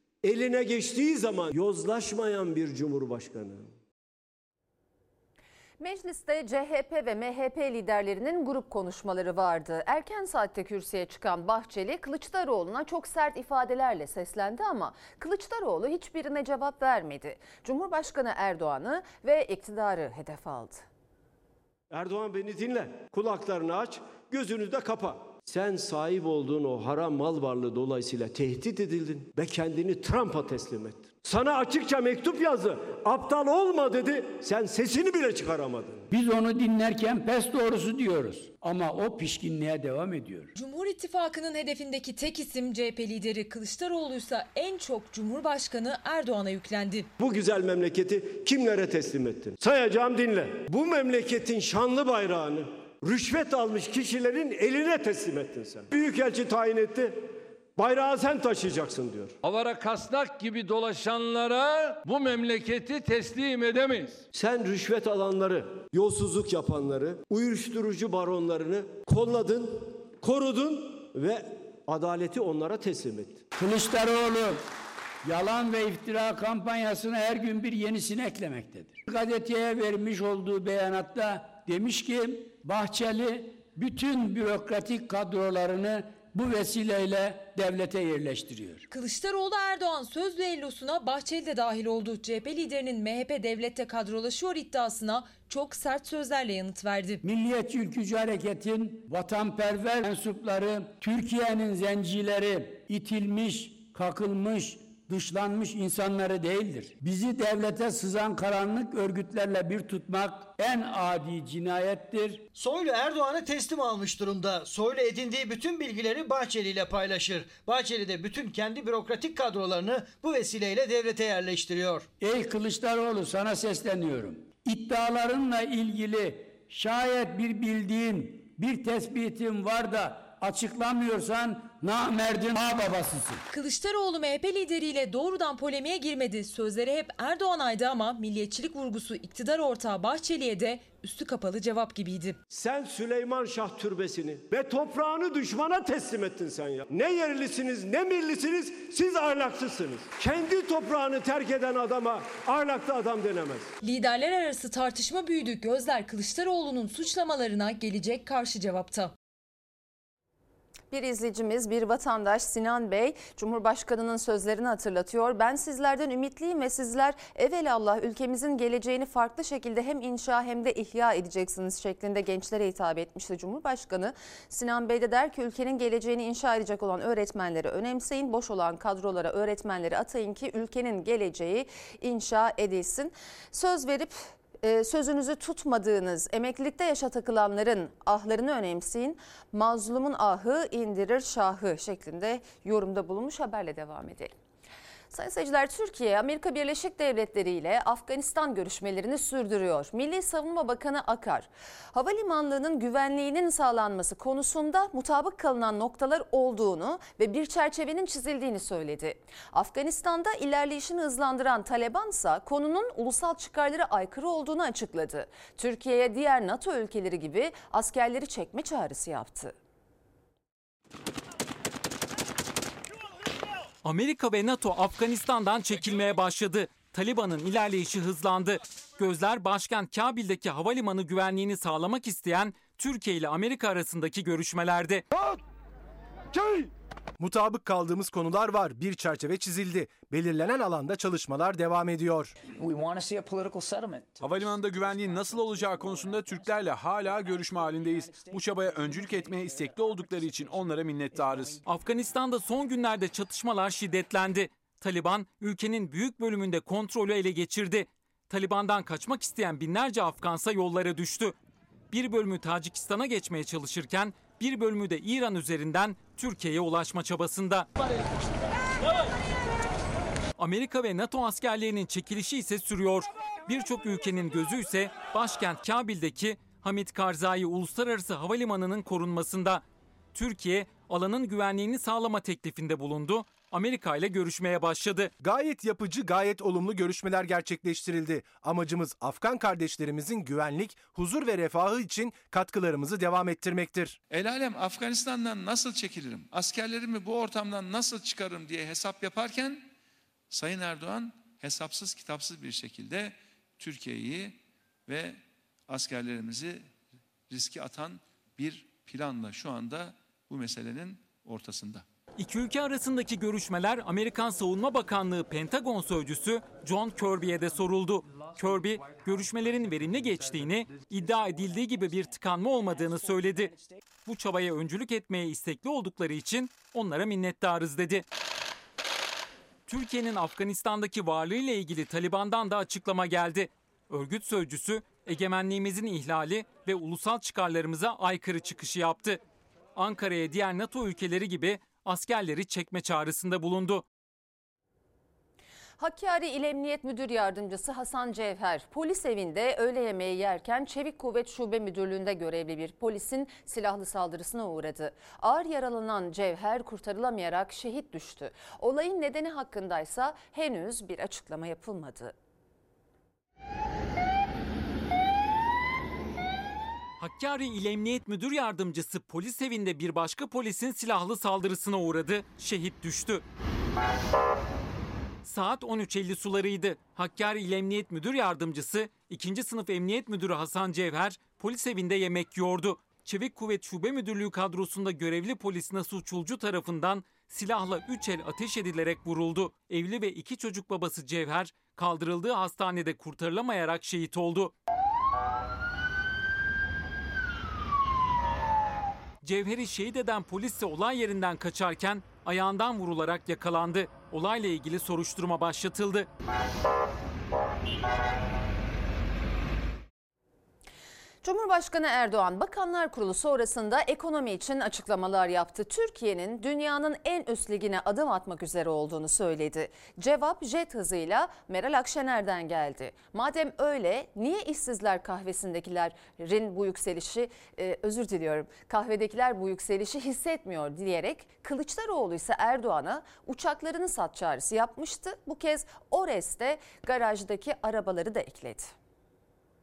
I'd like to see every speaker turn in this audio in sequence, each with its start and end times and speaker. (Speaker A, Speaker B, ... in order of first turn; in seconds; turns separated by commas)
Speaker A: 0.2-3.7, Speaker B: 5.8-20.9, Speaker A: 21.9-36.1, Speaker C: 36.1-40.5, Speaker D: 40.5-47.1, Speaker A: 47.2-59.4, Speaker E: 59.4-64.2, Speaker A: 64.3-73.5, Speaker C: 73.6-74.6, Speaker C: 75.2-88.9, Speaker D: 88.9-97.2, Speaker C: 97.2-112.5, Speaker F: 112.5-122.1, Speaker C: 122.2-133.4, Speaker D: 133.5-142.4, Speaker A: 142.5-153.7, Speaker D: 153.8-159.1, Speaker B: 160.9-194.3, Speaker B: 195.1-219.5, Speaker G: 223.8-235.1, Speaker A: 236.3-236.7, Speaker H: 237.2-242.3, Speaker I: 244.1-251.6, Speaker G: 251.7-261.4, Speaker G: 261.9-267.7, Speaker G: 270.4-279.6, Speaker G: 280.1-285.1, Speaker H: 285.2-294.0, Speaker J: 294.1-299.7, Speaker J: 300.3-306.7, Speaker J: 307.3-311.9, Speaker G: 312.2-323.5, Speaker G: 324.1-328.1, Speaker G: 329.7-339.2, Speaker G: 339.8-343.8, Speaker B: 345.8-362.1, Speaker G: 367.0-373.2, Speaker G: 375.2-394.5, Speaker G: 399.2-406.1, Speaker B: 411.2-438.7